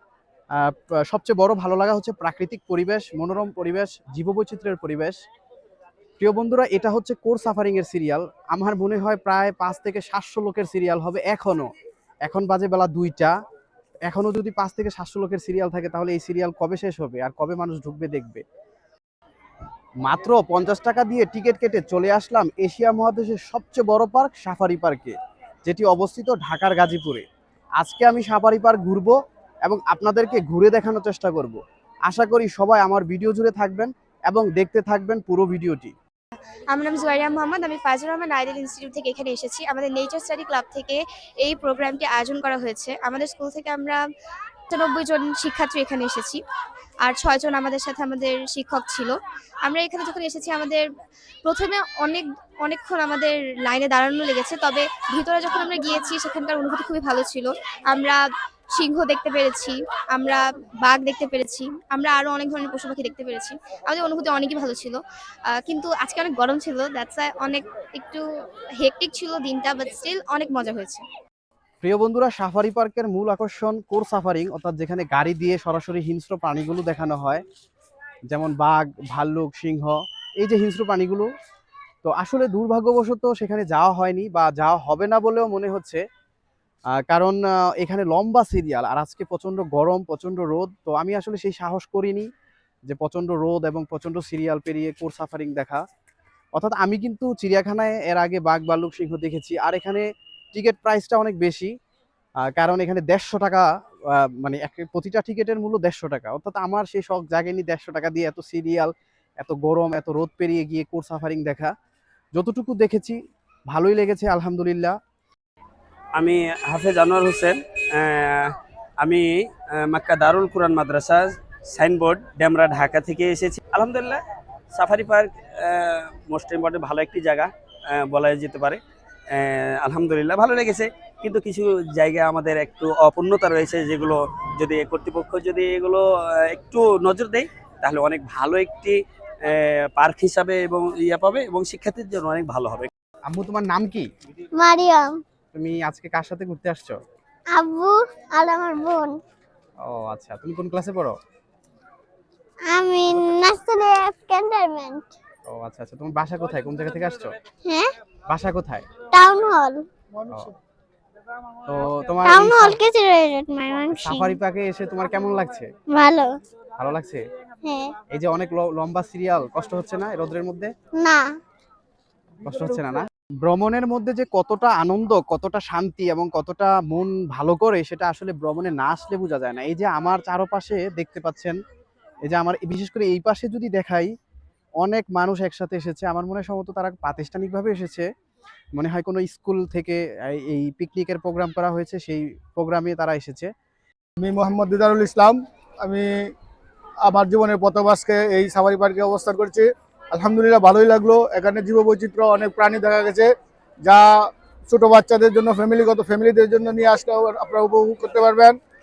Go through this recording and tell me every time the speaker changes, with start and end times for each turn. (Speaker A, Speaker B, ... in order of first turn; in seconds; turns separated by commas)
Speaker A: 0.6-5.2, Speaker A: 6.2-11.7, Speaker A: 12.2-13.3, Speaker A: 14.1-18.4, Speaker A: 20.0-25.1, Speaker A: 25.6-27.2, Speaker A: 27.8-35.9, Speaker B: 36.7-44.0, Speaker B: 44.7-46.4, Speaker B: 47.0-50.9, Speaker B: 51.4-58.2, Speaker B: 58.7-68.2, Speaker B: 68.8-71.0, Speaker A: 71.8-77.4, Speaker A: 78.3-81.3, Speaker A: 82.0-86.0, Speaker A: 87.1-92.3, Speaker A: 92.9-95.8, Speaker A: 96.5-101.7, Speaker A: 102.5-111.7, Speaker A: 112.3-113.2, Speaker A: 113.7-115.0, Speaker C: 116.2-124.2, Speaker C: 124.7-128.8, Speaker C: 129.3-142.9, Speaker A: 143.3-144.1, Speaker D: 144.6-145.2, Speaker A: 145.5-147.0, Speaker D: 147.5-149.2, Speaker A: 149.8-151.2, Speaker D: 152.7-155.1, Speaker A: 155.5-157.3, Speaker D: 157.6-157.9, Speaker A: 158.3-158.9, Speaker D: 159.1-159.8, Speaker A: 161.7-162.8, Speaker D: 162.2-164.4, Speaker A: 163.9-165.7, Speaker D: 165.9-166.3, Speaker A: 166.8-167.2, Speaker D: 167.6-167.9, Speaker A: 168.1-170.7, Speaker D: 171.0-171.2, Speaker A: 172.4-181.6, Speaker A: 182.3-184.1, Speaker A: 184.8-188.1, Speaker A: 188.8-193.5, Speaker E: 194.2-196.3, Speaker E: 197.0-203.3, Speaker E: 203.8-208.6